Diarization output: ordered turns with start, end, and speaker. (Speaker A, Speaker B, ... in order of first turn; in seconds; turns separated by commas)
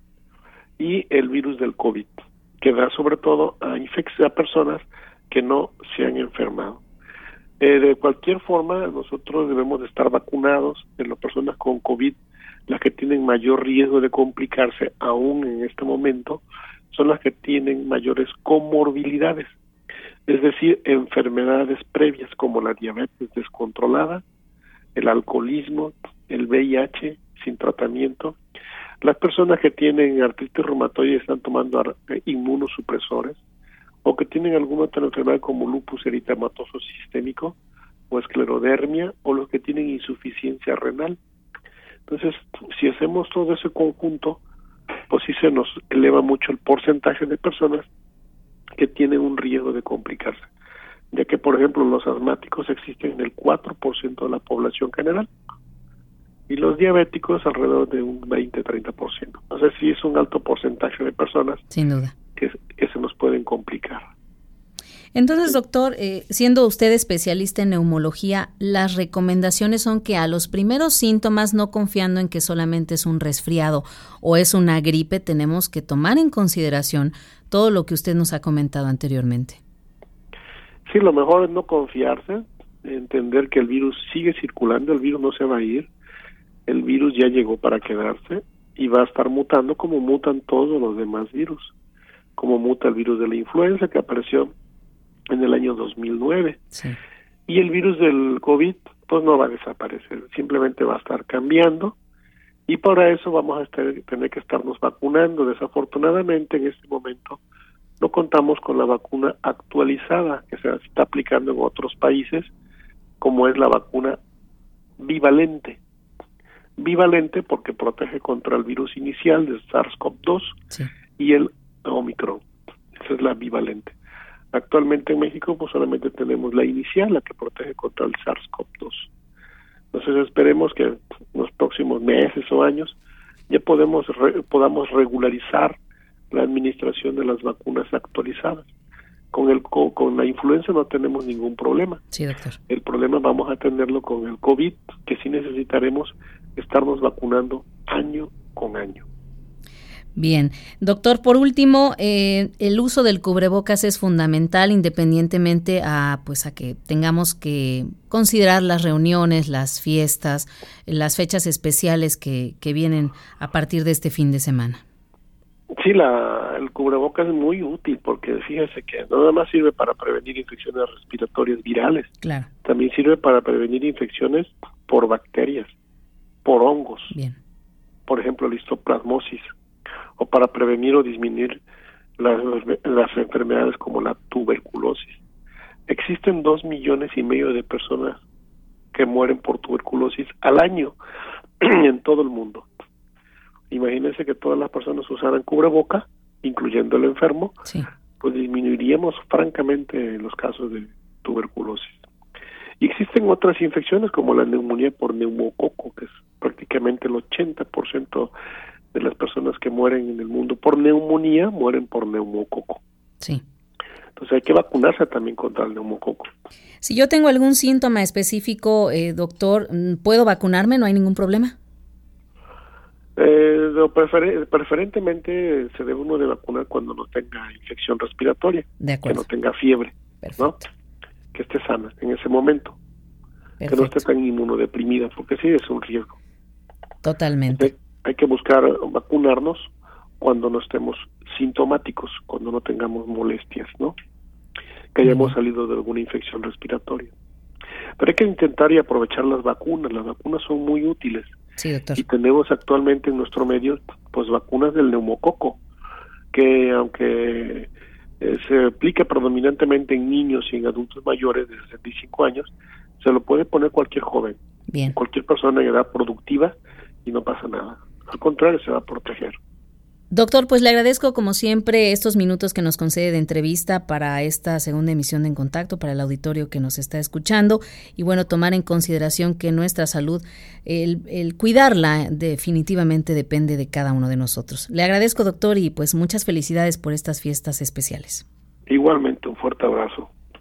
Speaker A: 0.8-6.8, Speaker A: 7.6-12.2, Speaker A: 12.7-19.5, Speaker A: 20.3-24.2, Speaker A: 24.9-28.4, Speaker A: 29.0-33.4, Speaker A: 34.0-37.5, Speaker A: 38.1-41.2, Speaker A: 42.1-44.4, Speaker A: 45.1-47.9, Speaker A: 48.8-50.5, Speaker A: 51.1-55.3, Speaker A: 56.5-61.6, Speaker B: 61.7-62.1, Speaker A: 62.4-64.0, Speaker B: 65.1-79.6, Speaker A: 80.9-85.9, Speaker A: 86.7-91.7, Speaker A: 92.4-94.5, Speaker A: 95.3-96.6, Speaker B: 96.7-97.0, Speaker A: 97.5-101.9, Speaker A: 102.7-107.4, Speaker A: 108.0-112.5, Speaker A: 113.2-114.2, Speaker A: 115.0-115.8, Speaker A: 116.8-120.6, Speaker A: 121.2-122.4, Speaker A: 123.0-123.9, Speaker A: 124.5-129.1, Speaker A: 129.9-132.9, Speaker A: 133.5-135.8, Speaker A: 136.3-138.7, Speaker A: 139.3-142.0, Speaker B: 142.1-142.6, Speaker A: 142.7-149.0, Speaker B: 150.2-164.8, Speaker A: 165.8-172.1, Speaker B: 172.2-172.5, Speaker A: 172.6-175.7, Speaker A: 176.4-177.1, Speaker B: 177.1-177.4, Speaker A: 178.1-179.5, Speaker A: 180.2-181.6, Speaker A: 182.2-185.2, Speaker A: 185.9-188.2, Speaker A: 188.9-190.9, Speaker A: 191.6-192.7, Speaker A: 193.7-197.6, Speaker A: 198.2-202.0, Speaker A: 202.8-208.3, Speaker A: 208.9-212.8, Speaker A: 214.2-216.3, Speaker B: 216.8-221.5, Speaker A: 223.2-230.6, Speaker B: 228.8-229.2, Speaker B: 230.2-230.7, Speaker A: 231.3-232.8, Speaker B: 233.6-234.0, Speaker A: 233.7-236.2, Speaker B: 237.0-237.7, Speaker A: 237.5-243.9, Speaker A: 244.9-247.1, Speaker B: 245.0-245.3, Speaker A: 248.0-251.3, Speaker B: 251.6-252.0, Speaker A: 251.9-255.6, Speaker A: 256.3-257.7, Speaker A: 258.2-264.4, Speaker B: 264.7-265.0, Speaker A: 264.9-269.4, Speaker B: 270.1-288.2, Speaker A: 288.7-290.1